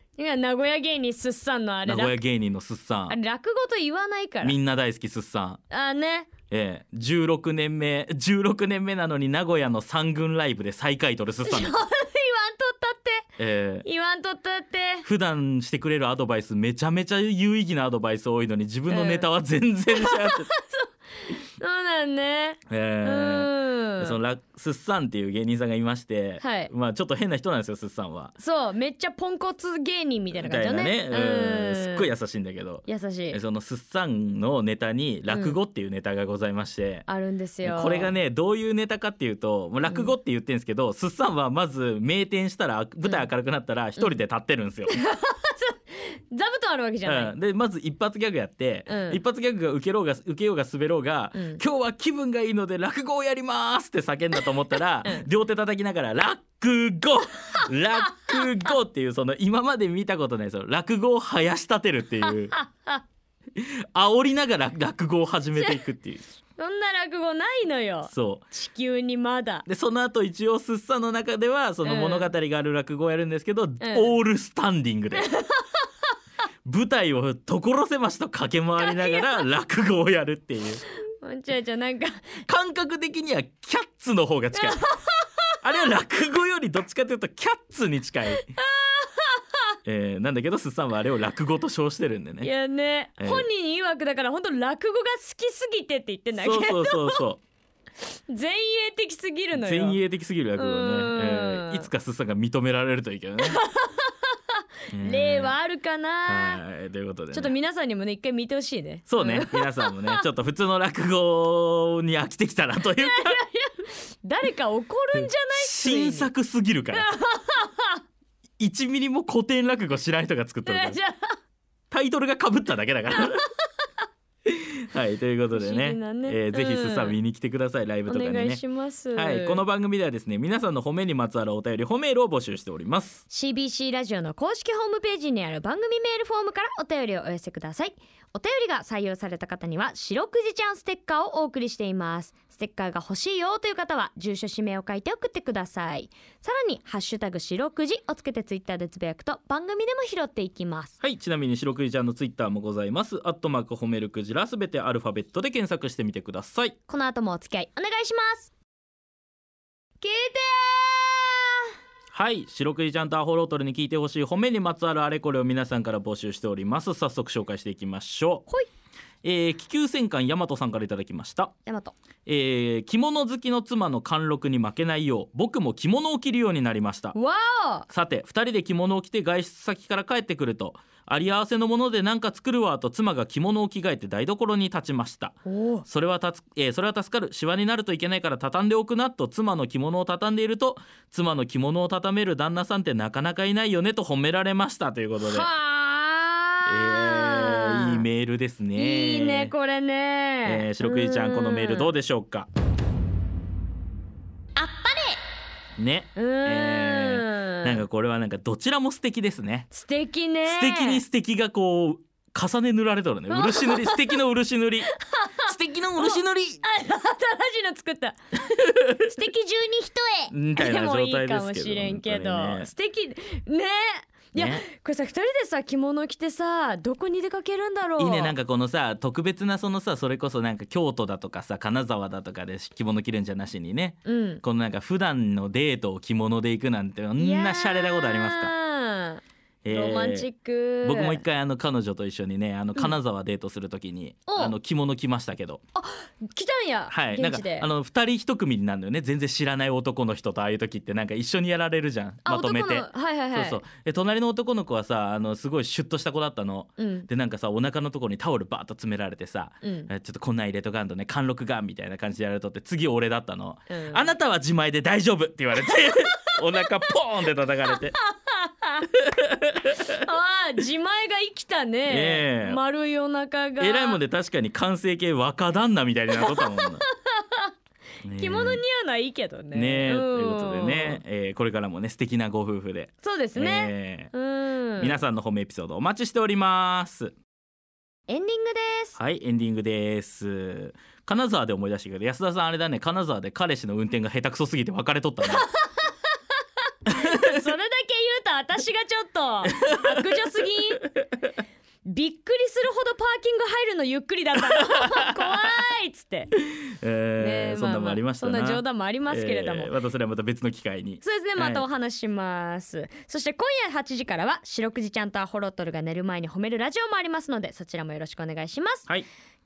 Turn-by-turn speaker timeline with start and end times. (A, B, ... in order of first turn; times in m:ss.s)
0:00.2-0:02.2 A
0:01.8-0:03.2 B
0:03.1-0:04.6 A
0:04.4-0:05.6 B
0:05.7-0:06.3 A
0:06.5-0:11.8 B
0:11.4-0:13.3 A
0:13.4-0:13.9 B
0:13.8-0:15.1 A
0:15.0-0:20.5 B
0:18.9-0:19.3 A
0:19.9-0:24.2 A
0:22.7-0:28.3 B
0:26.4-0:26.7 A
0:28.4-0:32.1 A
0:30.3-0:37.1 B
0:32.8-0:33.4 A
0:35.3-0:35.6 A
0:37.1-0:38.1 A
0:37.6-0:45.0 B
0:39.8-0:40.2 A
0:43.0-0:43.3 A
0:44.9-0:47.3 A
0:47.0-1:02.5 B
0:48.9-0:49.2 A
0:51.3-0:51.6 A
0:58.1-0:58.5 A
1:02.2-1:03.0 A
1:03.6-1:06.2 B
1:05.6-1:05.8 A
1:06.6-1:09.6 A
1:08.1-1:08.5 B
1:09.7-1:15.3 B
1:11.8-1:12.3 A
1:13.8-1:14.1 A
1:15.2-1:15.8 A
1:16.6-1:20.8 B
1:18.8-1:19.4 A
1:21.2-1:22.4 A
1:22.5-1:24.9 B
1:24.5-1:25.5 A
1:25.6-1:28.5 B
1:28.4-1:29.6 A
1:29.8-1:32.5 B
1:32.4-1:37.2 A
1:33.2-1:33.5 B
1:36.3-1:37.4 B
1:38.3-1:40.0 A
1:39.5-1:43.6 B
1:40.6-1:41.9 A
1:43.4-1:44.4 A
1:44.9-1:45.6 B
1:45.0-1:46.6 A
1:46.3-1:47.6 B
1:47.3-1:50.2 A
1:49.1-1:53.4 B
1:53.0-1:56.3 A
1:55.2-1:57.1 B
1:56.9-1:58.0 A
1:58.6-2:01.0 B
2:00.6-2:01.4 A
2:01.9-2:03.4 B
2:04.5-2:08.6 B
2:05.5-2:07.2 A
2:08.1-2:09.6 A
2:09.2-2:13.2 B
2:13.3-2:31.0 A
2:31.0-2:36.8 B
2:36.9-2:38.5 A
2:40.0-2:41.5 A
2:42.1-2:48.5 B
2:49.2-2:51.5 B
2:51.7-2:52.0 A
2:52.3-2:57.2 B
2:57.1-2:57.9 A
2:57.9-3:05.4 B
3:05.5-3:05.8 A
3:05.9-3:15.5 B
3:15.2-3:18.0 A
3:16.7-3:19.5 B
3:18.8-3:22.0 A
3:20.4-3:22.5 B
3:24.6-3:25.2 A
3:25.8-3:29.7 B
3:26.2-3:27.8 A
3:29.7-3:31.0 A
3:30.4-3:34.9 B
3:33.3-3:34.2 A
3:35.0-3:48.4 A
3:35.4-3:36.6 B
3:40.3-3:42.7 B
3:44.4-3:44.6 B
3:48.0-3:58.5 B
3:54.0-3:54.4 A
3:57.2-4:01.2 A
3:59.6-4:00.3 B
4:00.8-4:05.6 B
4:04.3-4:04.6 A
4:05.8-4:07.7 A
4:06.9-4:28.0 B
4:12.2-4:13.6 A
4:16.8-4:17.1 A
4:19.6-4:19.9 A
4:23.7-4:24.1 A
4:27.7-4:28.9 A
4:29.1-4:29.8 B
4:29.7-4:34.0 A
4:31.9-4:32.6 B
4:33.6-4:36.8 B
4:36.2-4:37.5 A
4:38.0-4:38.6 B
4:38.1-4:41.0 A
4:39.5-4:44.1 B
4:43.0-4:45.0 A
4:44.8-4:47.1 B
4:48.1-4:49.0 A
4:49.0-4:55.5 B
4:55.2-4:56.2 A
4:56.9-5:00.9 A
4:56.9-4:57.2 B
4:59.6-5:00.1 B
5:01.8-5:06.4 A
5:06.8-5:11.6 B
5:07.2-5:09.8 A
5:11.0-5:18.9 A